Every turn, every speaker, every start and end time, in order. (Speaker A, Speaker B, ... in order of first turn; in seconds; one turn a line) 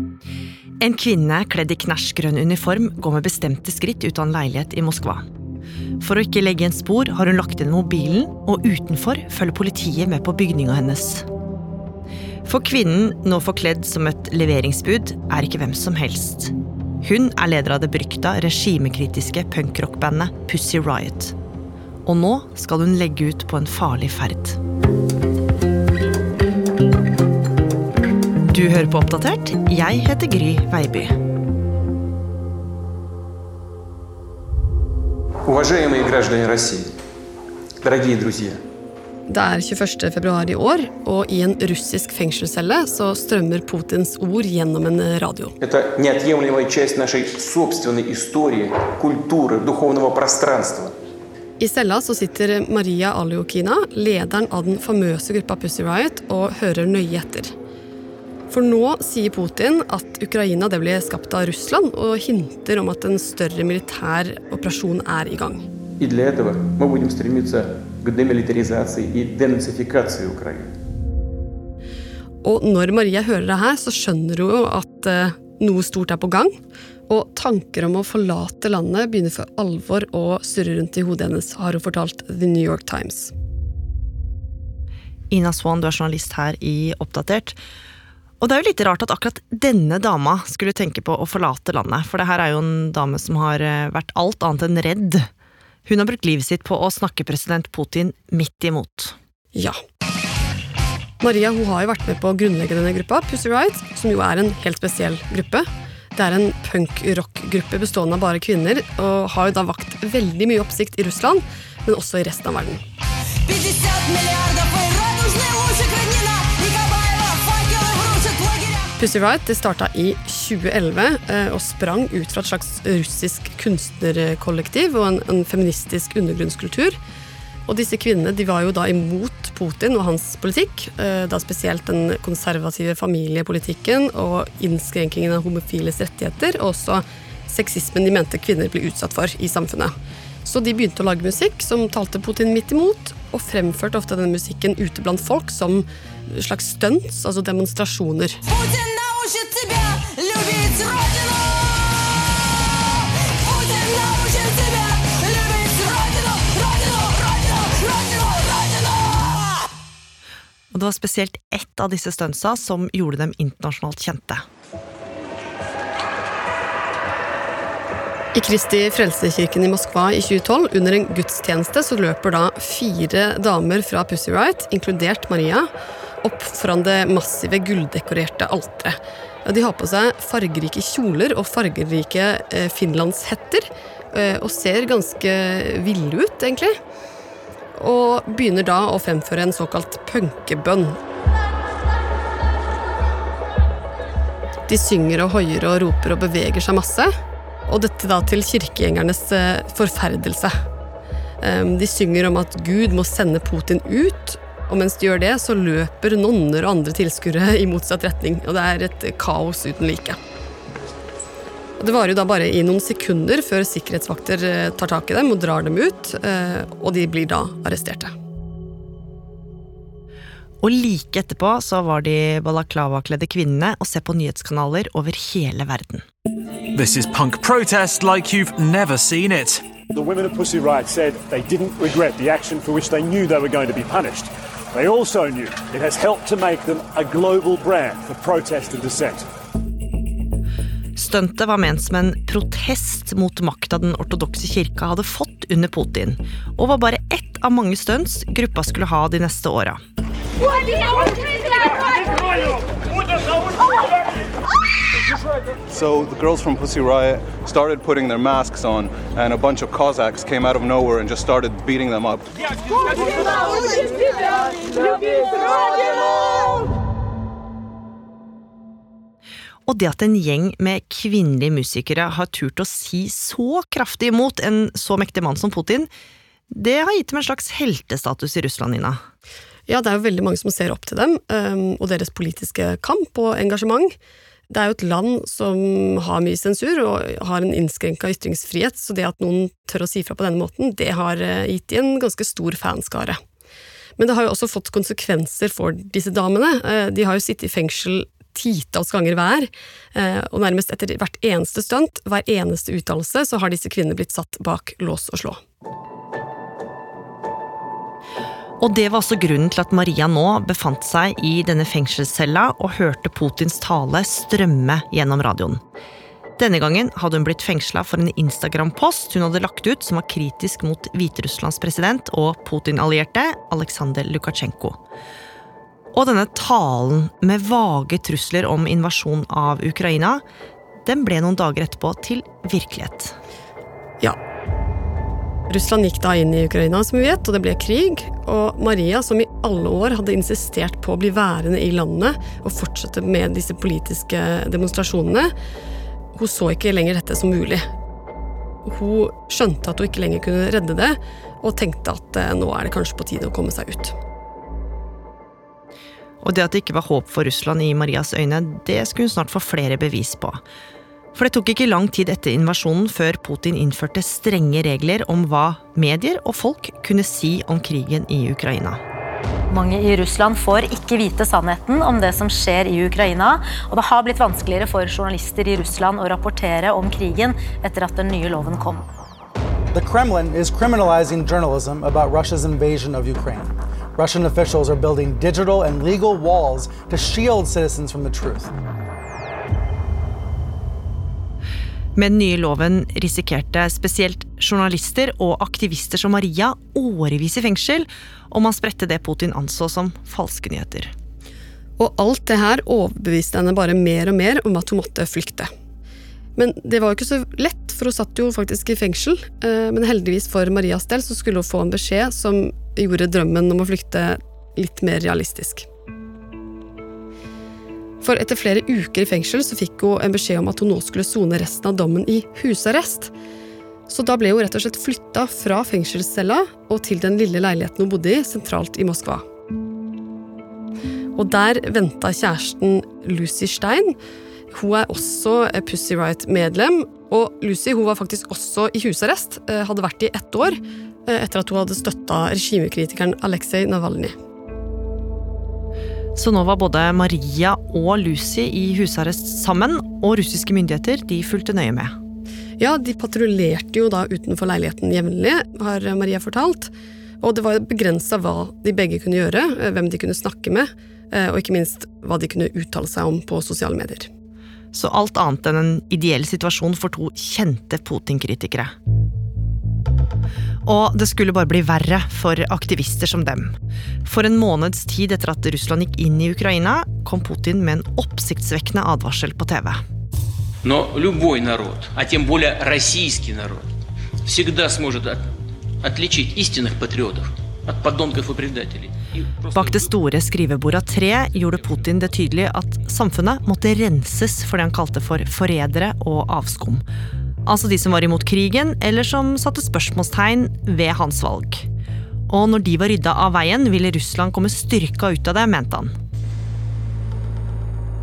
Speaker A: 0.8-5.3
Speaker A: 6.0-11.3
Speaker A: 12.5-21.3
Speaker A: 22.1-24.6
Speaker A: 28.5-31.1
Speaker B: 35.5-36.9
Speaker B: 37.8-38.6
Speaker C: 39.3-45.5
Speaker B: 45.6-51.0
Speaker C: 51.6-57.5
Speaker C: 58.5-65.6
Speaker B: 66.0-70.7
Speaker C: 72.4-76.5
Speaker C: 77.1-83.3
Speaker A: 85.3-87.6
Speaker A: 88.4-95.3
Speaker A: 95.8-99.1
Speaker C: 101.2-112.8
Speaker D: 113.5-118.6
Speaker C: 119.0-127.0
Speaker C: 127.7-139.9
Speaker C: 140.4-148.4
Speaker D: 148.9-151.1
Speaker D: 153.7-156.7
Speaker D: 157.7-158.4
Speaker A: 160.7-164.4
Speaker C: 168.3-175.7
Speaker C: 176.2-186.7
Speaker C: 187.7-191.0
Speaker C: 194.7-197.1
Speaker C: 197.7-200.5
Speaker C: 201.4-210.2
Speaker C: 211.8-218.1
Speaker A: 220.6-226.1
Speaker E: 226.7-229.6
Speaker F: 229.9-239.3
Speaker A: 241.0-249.8
Speaker G: 255.7-262.3
Speaker A: 269.7-275.9
Speaker A: 276.5-279.0
Speaker C: 279.7-283.9
Speaker C: 284.5-293.2
Speaker C: 294.0-305.4
Speaker A: 308.6-315.6
Speaker A: 316.4-324.8
Speaker A: 325.9-330.2
Speaker A: 330.9-333.2
Speaker C: 335.5-345.3
Speaker C: 346.1-347.6
Speaker C: 348.6-353.9
Speaker A: 356.2-360.4
Speaker A: 361.1-368.8
Speaker H: 369.5-378.8
Speaker I: 379.7-388.5
Speaker A: 391.9-400.9
Speaker C: 401.8-405.5
Speaker C: 406.4-415.7
Speaker C: 418.0-423.1
Speaker C: 423.9-429.2
Speaker C: 431.2-433.9
Speaker C: 434.5-444.2
Speaker A: 446.2-451.9
Speaker C: 452.6-464.1
Speaker A: 464.7-468.7
Speaker A: 470.6-473.5
Speaker A: 474.1-479.8
Speaker B: 480.6-483.7
Speaker B: 484.2-485.3
Speaker B: 485.8-489.8
Speaker A: 489.5-496.9
Speaker A: 497.4-501.7
Speaker A: 502.3-505.9